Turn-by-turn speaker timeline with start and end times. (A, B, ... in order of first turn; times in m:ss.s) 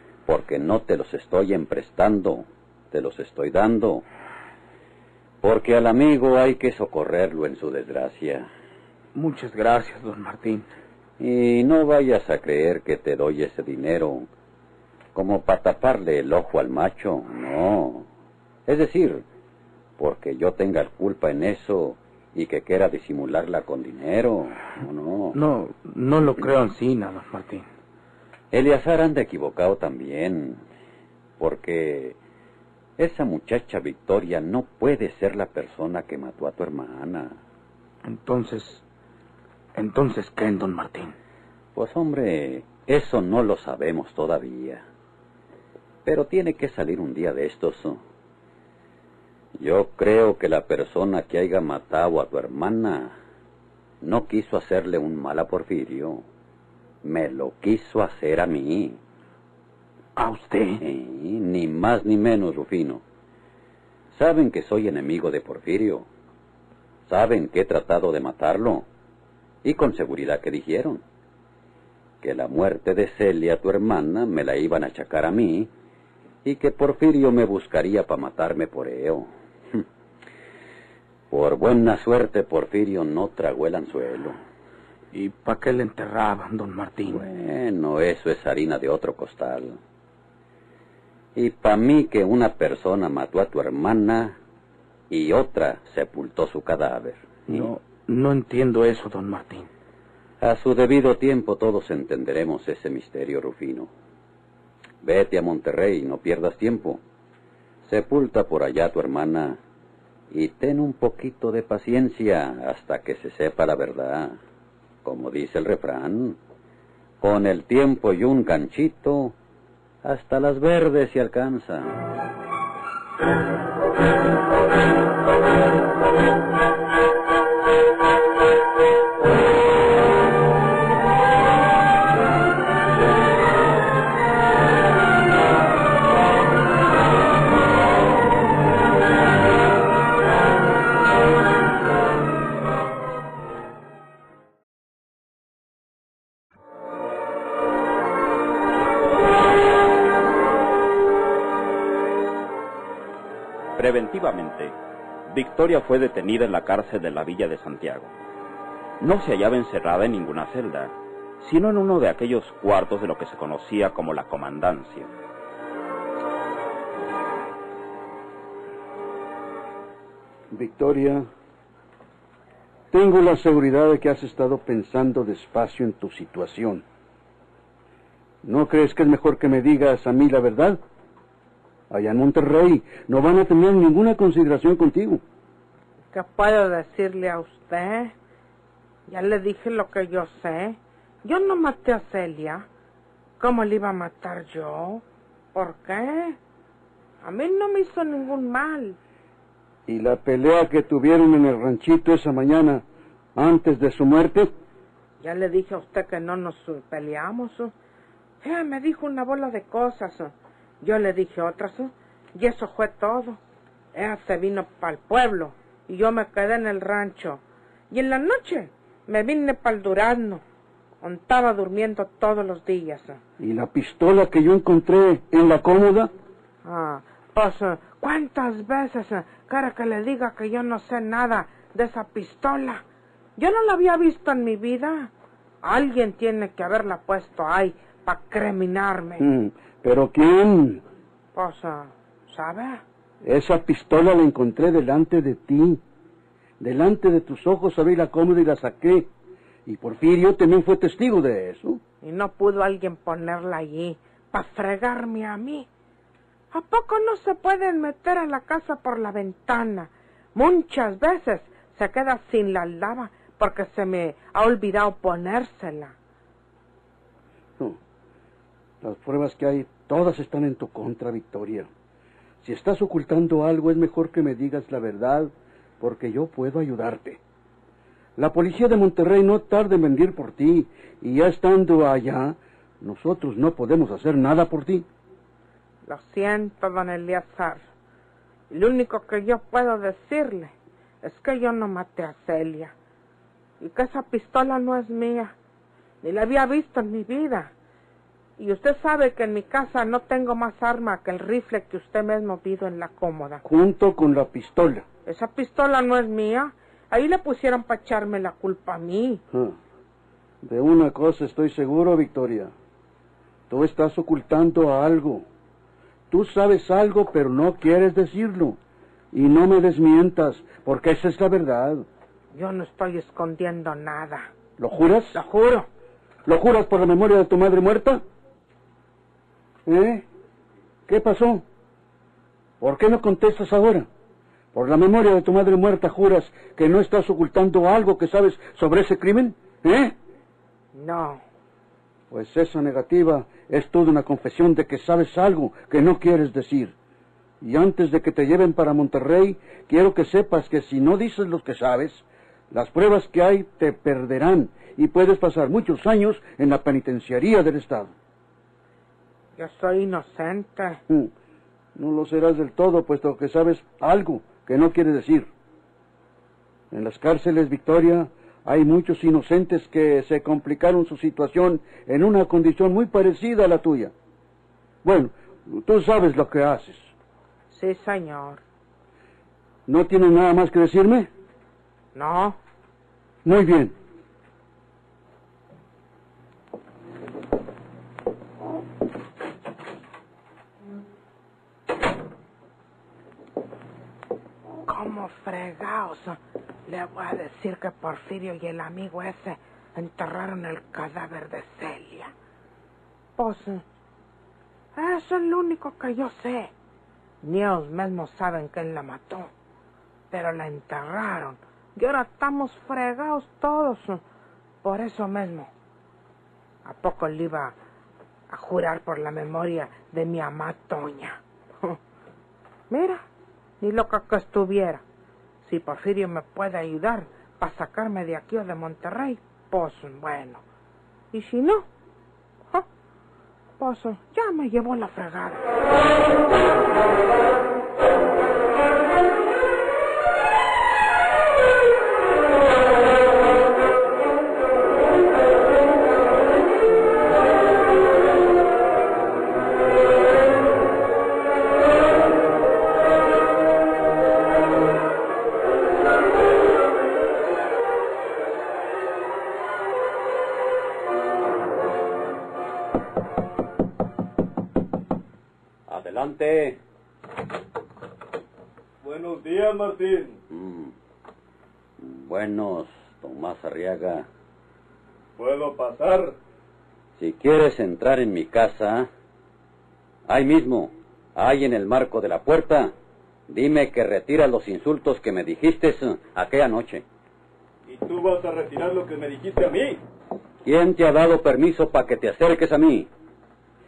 0:00.2-0:04.0 A
0:05.4-0:08.5 A
0:09.1-0:10.7 B
0:11.2-0:14.3 A
0:15.1-0:18.0 A
0:18.7-0:19.2 A
0:20.0-0:25.4 A
0:25.3-0:27.6 B
0:28.5-0:30.6 A
0:31.4-0:32.2 A
0:33.0-0:37.4 A
0:38.0-0:38.8 B
0:39.8-0:41.2 B
0:41.8-0:44.8 A
0:46.0-0:48.0 A
0:49.6-0:53.1 A
0:54.0-0:56.2 A
0:57.0-0:59.0 A
1:00.2-1:00.8 B
1:00.8-1:03.0 A
1:04.1-1:06.1 A
1:07.1-1:08.8 A
1:09.6-1:11.0 A
1:12.2-1:15.7 A
1:16.4-1:19.8 A
1:21.3-1:24.4 A
1:25.1-1:27.2 B
1:27.1-1:29.8 A
1:31.4-1:34.4 A
1:35.1-1:37.7 A
1:37.5-1:39.7 B
1:40.4-1:43.9 A
1:45.0-1:47.0 A
1:47.8-1:49.6 A
1:50.3-1:54.4 A
1:55.0-1:56.4 A
1:57.2-1:59.3 A
2:00.0-2:02.0 A
2:33.8-2:34.7 C
2:35.3-2:38.1 C
2:39.0-2:45.1 C
2:50.5-2:51.3 D
2:52.9-2:56.8 D
2:58.4-3:00.8 D
3:01.9-3:05.2 D
3:06.1-3:08.1 E
3:09.1-3:12.7 E
3:13.4-3:16.4 E
3:17.2-3:19.0 E
3:19.9-3:22.8 D
3:23.4-3:24.5 D
3:25.2-3:27.7 E
3:28.4-3:33.4 E
3:33.9-3:40.4 E
3:41.0-3:43.2 E
3:43.4-3:46.1 D
3:46.6-3:52.8 E
3:53.4-3:55.1 E
3:55.6-3:59.2 E
3:59.2-4:00.8 D
4:01.3-4:02.8 E
4:03.2-4:05.8 D
4:06.6-4:09.1 D
4:09.6-4:11.8 D
4:12.0-4:15.7 E
4:16.5-4:25.9 E
4:28.8-4:31.7 D
4:32.4-4:37.2 D
4:38.2-4:44.8 D
4:45.8-4:47.6 E
4:48.5-4:52.7 E
4:53.6-4:55.3 E
4:56.0-4:57.5 E
4:58.4-5:03.4 E
5:03.4-5:04.8 D
5:05.0-5:09.2 E
5:09.3-5:09.6 D
5:10.4-5:12.5 D
5:13.5-5:15.2 D
5:16.1-5:18.6 D
5:19.1-5:21.8 D
5:22.3-5:24.3 E
5:24.6-5:25.2 D
5:25.1-5:25.6 E
5:26.2-5:28.0 D
5:29.6-5:30.0 D
5:30.9-5:31.4 D
5:32.6-5:33.9 D
5:34.5-5:39.9 D
5:40.7-5:41.2 E
5:42.1-5:46.7 D
5:47.4-5:57.9 D
5:59.4-6:00.8 E
6:01.7-6:05.3 D
6:06.7-6:13.9 D
6:14.8-6:16.9 D
6:17.5-6:18.4 E
6:19.7-6:21.1 D
6:21.9-6:22.4 E
6:23.2-6:23.7 D
6:34.6-6:42.1 E
6:43.2-6:43.6 E
6:44.8-6:46.5 E
6:47.2-6:49.3 E
6:50.1-6:54.0 E
6:54.6-6:55.5 E
6:56.6-6:57.5 E
6:58.3-7:01.8 E
7:02.7-7:03.0 E
7:03.6-7:04.8 E
7:05.4-7:10.4 E
7:11.1-7:11.7 E
7:13.6-7:15.5 E
7:45.7-7:46.6 A
7:48.8-7:50.1 F
7:50.3-7:50.7 A
7:51.8-7:54.1 A
7:55.2-7:56.1 F
7:57.0-7:58.9 A
8:00.1-8:02.7 A
8:03.3-8:06.8 A
8:07.7-8:09.8 F
8:10.4-8:12.9 A